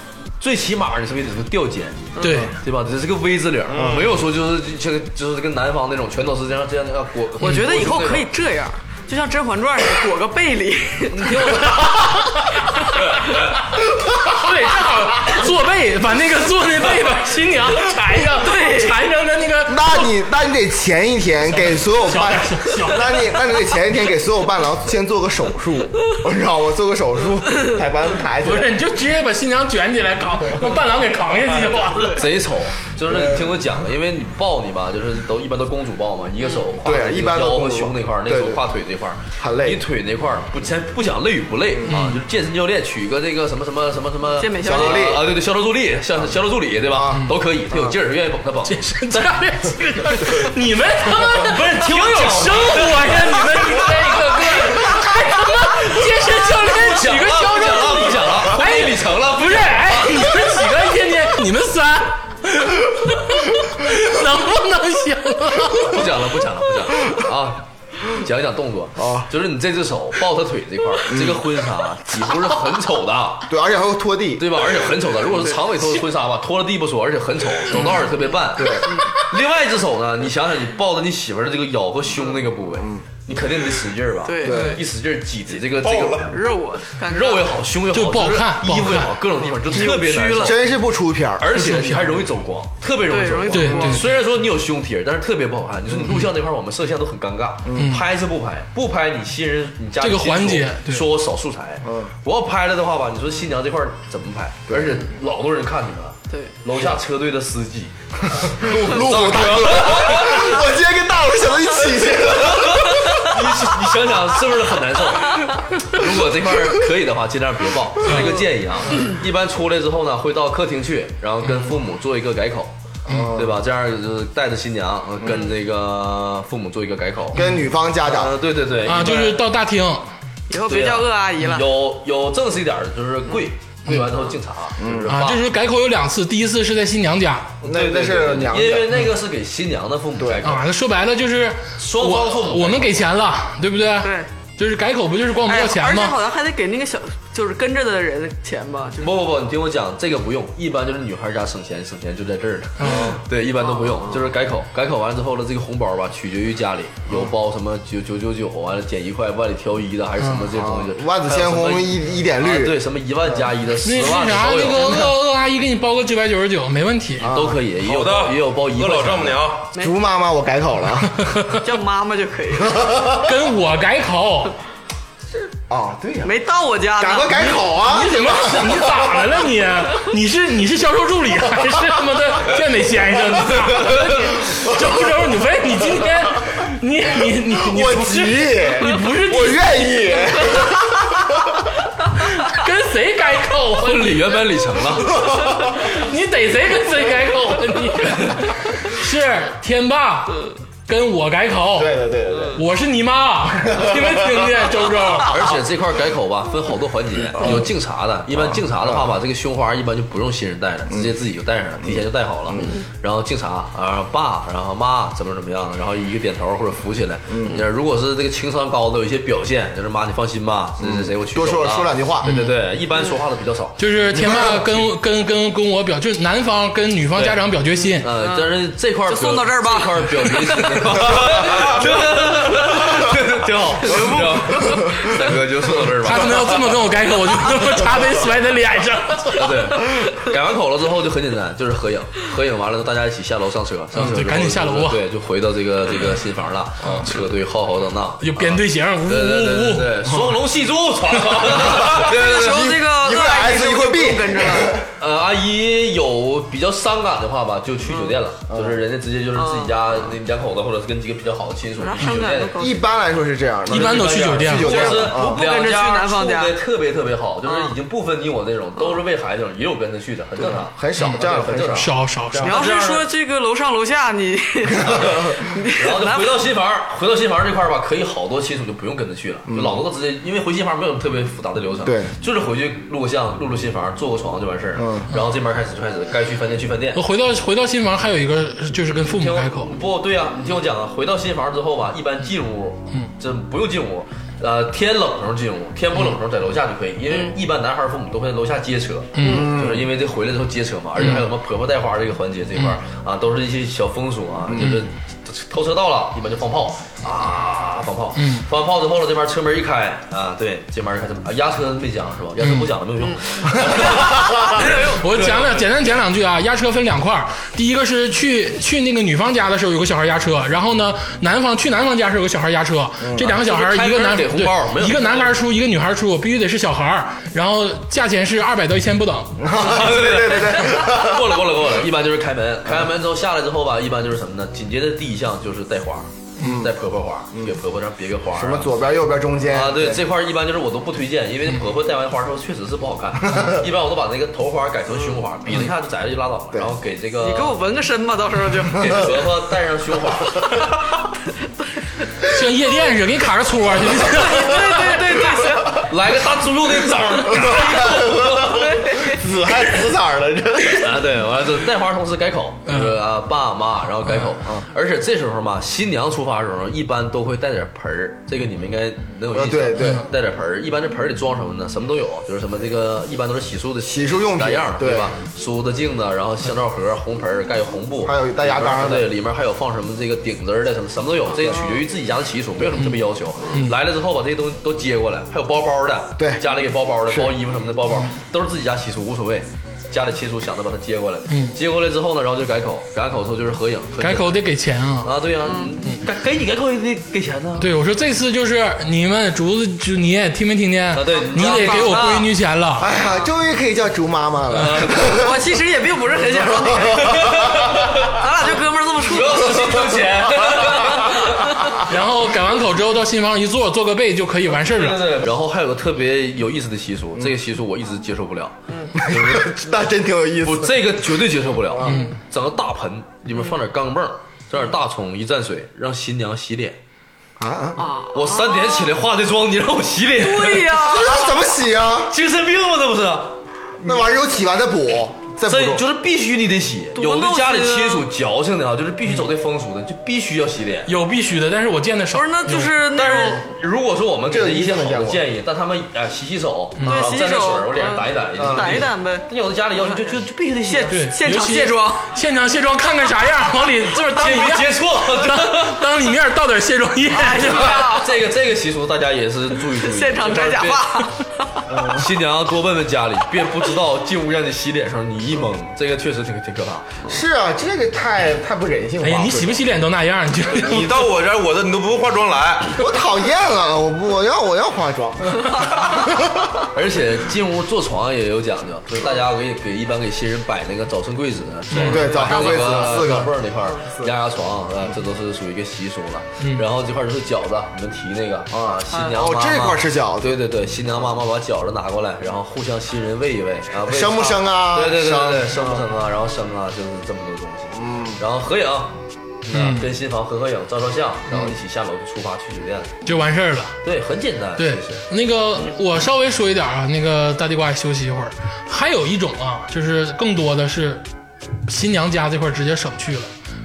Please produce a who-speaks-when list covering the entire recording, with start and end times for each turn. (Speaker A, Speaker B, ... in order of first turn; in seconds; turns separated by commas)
Speaker A: 0.4-8.3, Speaker B: 2.1-2.5, Speaker C: 2.2-2.5, Speaker D: 3.7-4.0, Speaker E: 3.7-4.1, Speaker B: 7.4-13.3, Speaker A: 11.1-12.3, Speaker A: 13.0-13.3, Speaker C: 14.2-20.1, Speaker B: 18.3-19.0, Speaker E: 19.7-28.7, Speaker C: 21.6-23.3, Speaker C: 28.4-32.2, Speaker A: 32.1-49.4, Speaker E: 33.1-33.5, Speaker E: 36.8-38.6, Speaker E: 39.4-39.8, Speaker C: 41.9-42.2, Speaker B: 44.3-45.2, Speaker E: 44.6-45.3, Speaker E: 46.9-48.0, Speaker C: 48.6-66.0, Speaker A: 51.3-54.9, Speaker A: 56.0-60.6, Speaker A: 65.8-73.5, Speaker E: 69.0-69.3, Speaker E: 71.1-71.4, Speaker E: 73.5-74.7, Speaker A: 74.4-86.3, Speaker E: 78.5-78.9, Speaker B: 78.8-79.1, Speaker B: 84.2-84.8, Speaker E: 84.4-84.8, Speaker D: 85.7-86.3, Speaker B: 86.3-87.6, Speaker A: 87.0-90.6, Speaker C: 87.9-89.1, Speaker B: 89.6-90.6, Speaker E: 90.4-91.5, Speaker A: 91.4-107.9, Speaker C: 91.5-92.2, Speaker B: 93.1-94.2, Speaker C: 93.5-94.0, Speaker E: 97.6-97.9, Speaker C: 97.8-98.0, Speaker C: 100.0-101.0, Speaker E: 101.8-102.1, Speaker E: 104.7-105.0, Speaker E: 108.3-113.2, Speaker A: 108.4-110.6, Speaker A: 112.4-122.7, Speaker C: 118.0-118.3, Speaker B: 118.1-118.4, Speaker C: 123.1-123.3, Speaker E: 123.1-123.6, Speaker A: 123.3-127.4, Speaker B: 125.3-125.5, Speaker E: 127.3-128.4, Speaker C: 127.3-127.6, Speaker A: 128.0-129.4, Speaker C: 128.8-130.1, Speaker B: 130.5-131.7, Speaker A: 130.7-135.4, Speaker E: 134.8-135.1, Speaker C: 135.1-137.5, Speaker E: 137.6-139.0, Speaker A: 137.6-140.6, Speaker C: 140.4-146.2, Speaker A: 141.8-143.1, Speaker B: 144.0-144.3, Speaker B: 145.4-149.2, Speaker A: 149.0-165.1, Speaker C: 152.8-153.1, Speaker B: 153.6-154.2, Speaker E: 160.4-162.8, Speaker C: 163.8-167.3, Speaker E: 167.2-167.6, Speaker A: 167.2-169.4, Speaker D: 167.8-169.7, Speaker E: 169.8-171.3, Speaker C: 171.2-171.6, Speaker B: 171.6-173.0, Speaker E: 172.7-173.2, Speaker C: 173.2-174.5, Speaker E: 175.3-176.3, Speaker B: 176.2-177.4, Speaker E: 177.0-179.4, Speaker C: 177.3-189.9, Speaker E: 187.5-191.5, Speaker C: 192.2-194.2, Speaker A: 193.8-195.2, Speaker C: 195.7-201.9, Speaker A: 198.1-198.4, Speaker E: 201.8-202.6, Speaker C: 202.5-205.3, Speaker E: 203.7-204.4, Speaker A: 205.3-224.6, Speaker E: 208.5-209.1, Speaker E: 211.8-212.8, Speaker E: 217.3-217.6, Speaker E: 220.8-222.3, Speaker C: 222.2-222.5, Speaker C: 223.8-228.1, Speaker E: 224.1-224.7, Speaker A: 227.1-227.4, Speaker A: 228.0-236.8, Speaker B: 228.2-228.5, Speaker B: 229.1-231.7, Speaker B: 234.4-235.3, Speaker C: 236.0-239.5, Speaker A: 239.3-252.8, Speaker C: 244.0-245.0, Speaker C: 246.8-247.1, Speaker C: 248.2-250.0, Speaker B: 252.0-254.8, Speaker E: 252.2-254.8, Speaker A: 255.0-262.5, Speaker B: 257.9-258.1, Speaker E: 258.5-258.8, Speaker B: 259.3-260.0, Speaker B: 261.8-262.8, Speaker E: 262.6-265.4, Speaker A: 263.7-273.1, Speaker C: 263.7-264.9, Speaker B: 264.6-266.6, Speaker B: 267.4-267.7, Speaker E: 270.4-272.8, Speaker C: 271.7-272.5, Speaker B: 272.4-276.4, Speaker A: 274.8-287.0, Speaker E: 279.5-279.8, Speaker E: 281.8-282.1, Speaker E: 284.8-285.1, Speaker C: 286.9-289.7, Speaker A: 288.9-315.6, Speaker C: 299.1-299.5, Speaker E: 299.2-299.9, Speaker C: 308.2-308.4, Speaker C: 312.4-312.7, Speaker B: 313.0-315.0, Speaker C: 314.9-329.4, Speaker E: 323.0-323.3, Speaker A: 323.2-325.3, Speaker E: 329.4-331.4, Speaker A: 329.5-338.8, Speaker E: 336.4-336.7, Speaker E: 338.3-340.0, Speaker A: 339.5-347.6, Speaker B: 347.2-349.2, Speaker A: 348.8-350.6, Speaker B: 350.3-350.6, Speaker C: 352.3-355.0, Speaker B: 354.0-355.9, Speaker A: 355.8-358.9, Speaker E: 357.3-361.0, Speaker B: 357.5-357.9, Speaker B: 358.4-359.2, Speaker A: 360.8-394.4, Speaker C: 362.7-363.0, Speaker E: 369.3-370.1, Speaker C: 369.8-370.0, Speaker E: 373.9-375.1, Speaker E: 378.0-379.1, Speaker C: 383.5-383.8, Speaker E: 386.2-386.4, Speaker E: 387.1-387.3, Speaker C: 391.3-391.6, Speaker C: 394.0-395.1, Speaker A: 395.0-397.7, Speaker B: 395.4-395.7, Speaker C: 397.6-402.9, Speaker A: 400.9-402.2, Speaker B: 401.1-402.3, Speaker E: 402.8-405.4, Speaker A: 404.5-405.2, Speaker B: 405.1-407.5, Speaker E: 406.3-407.5, Speaker A: 407.0-408.2, Speaker B: 408.0-409.9, Speaker A: 409.0-411.7, Speaker B: 411.0-411.8, Speaker C: 411.8-415.0, Speaker A: 414.6-419.6, Speaker E: 419.0-421.2, Speaker A: 420.4-426.8, Speaker E: 421.7-422.0, Speaker C: 421.9-422.1, Speaker E: 427.4-427.8, Speaker B: 427.8-428.9, Speaker A: 428.1-430.8, Speaker B: 430.2-431.4, Speaker E: 430.8-432.1, Speaker A: 432.1-434.0, Speaker E: 433.8-435.8, Speaker A: 435.5-440.9, Speaker B: 436.9-438.1, Speaker C: 440.9-442.7, Speaker B: 442.1-443.5, Speaker A: 442.9-451.0, Speaker E: 444.3-445.2, Speaker C: 446.8-447.1, Speaker B: 446.9-452.0, Speaker E: 448.4-448.8, Speaker C: 450.9-457.8, Speaker A: 453.9-455.8, Speaker B: 457.1-458.2, Speaker A: 457.4-461.0, Speaker B: 459.7-461.7, Speaker E: 461.7-462.1, Speaker A: 461.8-467.0, Speaker E: 467.1-469.7, Speaker C: 469.0-471.0, Speaker D: 470.5-472.8, Speaker E: 472.8-476.4, Speaker A: 476.7-502.9, Speaker C: 481.7-482.1, Speaker B: 481.8-483.1, Speaker E: 481.8-484.1, Speaker C: 486.4-486.6, Speaker E: 488.5-490.4, Speaker E: 493.8-495.8, Speaker E: 497.8-498.2, Speaker C: 499.5-499.9, Speaker C: 503.0-503.7, Speaker A: 503.8-505.0, Speaker C: 504.6-511.0, Speaker C: 511.7-513.3